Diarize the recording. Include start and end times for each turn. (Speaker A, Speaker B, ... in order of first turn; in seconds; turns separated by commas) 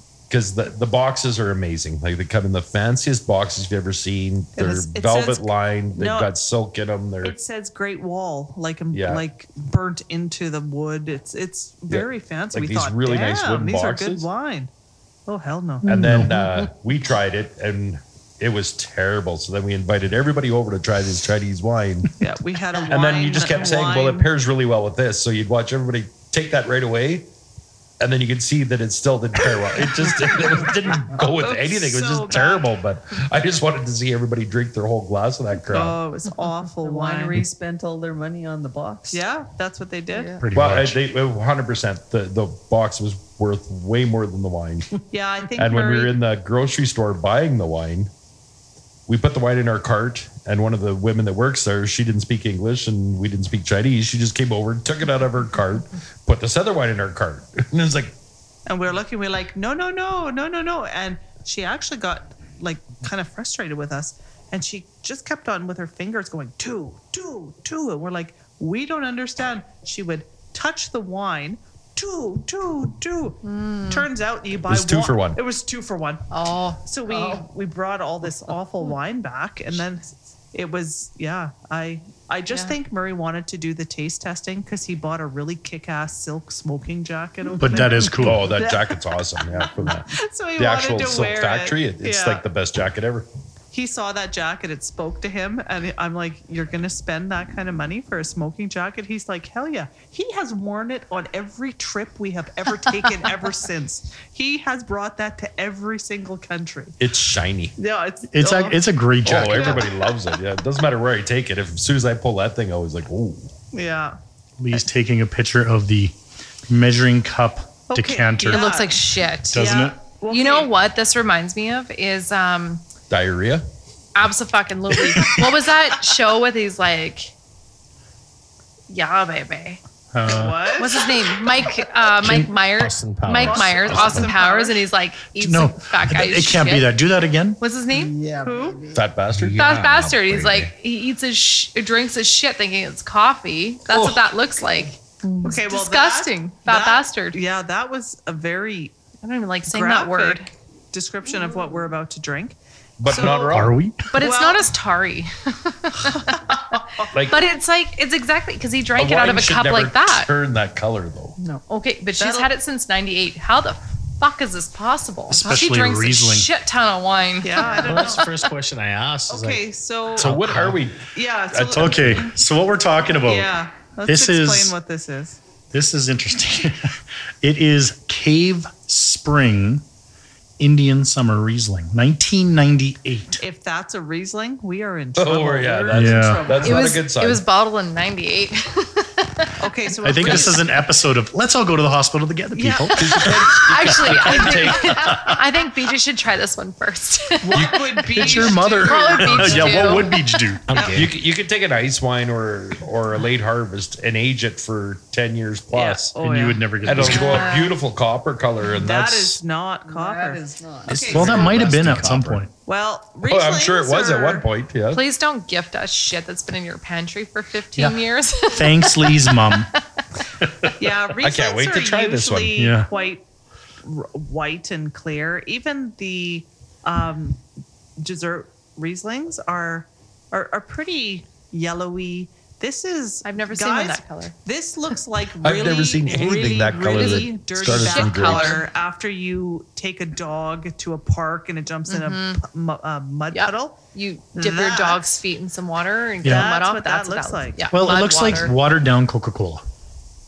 Speaker A: 0.3-7.4, Speaker B: 4.5-6.3, Speaker B: 7.2-14.7, Speaker A: 8.9-9.2, Speaker A: 11.9-14.3, Speaker B: 15.3-15.9, Speaker C: 15.8-16.6, Speaker A: 15.8-22.1, Speaker B: 22.2-24.3, Speaker A: 22.9-27.3, Speaker A: 28.0-36.0, Speaker B: 31.1-32.8, Speaker B: 35.7-37.4, Speaker D: 36.7-39.2, Speaker B: 39.1-40.4, Speaker D: 40.1-40.5, Speaker C: 40.4-41.0, Speaker A: 40.5-44.9, Speaker B: 45.1-46.2, Speaker A: 45.5-48.1, Speaker A: 49.1-58.1, Speaker B: 58.7-76.3, Speaker E: 73.4-74.1, Speaker A: 74.7-75.4, Speaker E: 76.3-77.4, Speaker B: 76.8-92.4, Speaker E: 82.5-82.8, Speaker C: 87.6-88.6, Speaker A: 88.1-93.3, Speaker B: 93.7-107.0, Speaker A: 107.0-107.7, Speaker B: 107.8-110.1, Speaker C: 108.3-109.9, Speaker A: 109.2-113.5, Speaker B: 113.7-114.2, Speaker C: 114.6-116.1, Speaker C: 116.7-118.7, Speaker B: 117.9-119.0, Speaker E: 118.5-122.8, Speaker C: 119.5-120.0, Speaker B: 119.5-120.7, Speaker A: 123.1-123.7, Speaker E: 124.1-127.3, Speaker C: 125.0-125.5, Speaker E: 128.9-129.8, Speaker C: 130.1-130.7, Speaker B: 130.2-131.1, Speaker E: 130.8-136.9, Speaker F: 132.2-134.3, Speaker B: 133.4-134.8, Speaker C: 135.3-137.6, Speaker E: 137.6-138.1, Speaker D: 137.9-139.0, Speaker B: 138.4-138.8, Speaker A: 138.9-139.6, Speaker F: 139.3-140.7, Speaker E: 139.5-145.0, Speaker D: 145.2-145.5, Speaker B: 145.4-148.9, Speaker E: 145.5-147.4, Speaker E: 149.2-150.5, Speaker B: 149.7-153.6, Speaker A: 153.0-153.8, Speaker C: 153.3-154.2, Speaker E: 154.1-156.5, Speaker B: 154.1-154.7, Speaker B: 156.1-157.1, Speaker A: 157.1-157.5, Speaker E: 157.3-160.3, Speaker A: 158.9-161.3, Speaker D: 161.4-161.6, Speaker E: 161.7-168.1, Speaker D: 162.2-162.5, Speaker C: 165.3-166.5, Speaker B: 167.4-168.3, Speaker F: 167.7-169.6, Speaker B: 169.3-170.3, Speaker A: 170.2-172.2, Speaker F: 170.2-170.8, Speaker C: 170.2-170.8, Speaker B: 171.1-172.3, Speaker C: 171.7-173.5, Speaker B: 173.2-175.4, Speaker C: 174.1-174.7, Speaker C: 175.7-179.8, Speaker C: 180.6-183.4, Speaker B: 183.4-185.6, Speaker A: 185.2-187.4, Speaker D: 185.3-187.0, Speaker C: 185.9-186.5, Speaker E: 186.6-189.5, Speaker B: 189.6-190.7, Speaker C: 190.0-195.3, Speaker B: 192.5-193.5, Speaker A: 192.9-195.3, Speaker E: 193.5-200.2, Speaker B: 197.4-200.0, Speaker C: 198.1-200.8, Speaker F: 200.7-201.1, Speaker B: 200.7-201.0, Speaker A: 200.8-206.2, Speaker B: 205.7-207.1, Speaker C: 206.2-207.5, Speaker A: 206.8-209.4, Speaker E: 207.0-207.8, Speaker B: 208.7-211.5, Speaker D: 209.8-211.7, Speaker F: 210.9-212.4, Speaker C: 211.1-212.5, Speaker B: 212.6-214.5, Speaker A: 213.2-215.0, Speaker E: 214.9-219.7, Speaker C: 218.5-219.7, Speaker B: 220.8-223.2, Speaker A: 221.2-222.6, Speaker C: 222.5-222.9, Speaker B: 223.8-227.4, Speaker B: 228.0-243.8, Speaker E: 233.2-234.3, Speaker A: 235.4-238.6, Speaker E: 236.9-238.6, Speaker E: 241.9-242.4, Speaker E: 243.3-248.5, Speaker B: 244.3-245.0, Speaker C: 246.2-246.5, Speaker B: 246.2-247.6, Speaker C: 247.7-249.6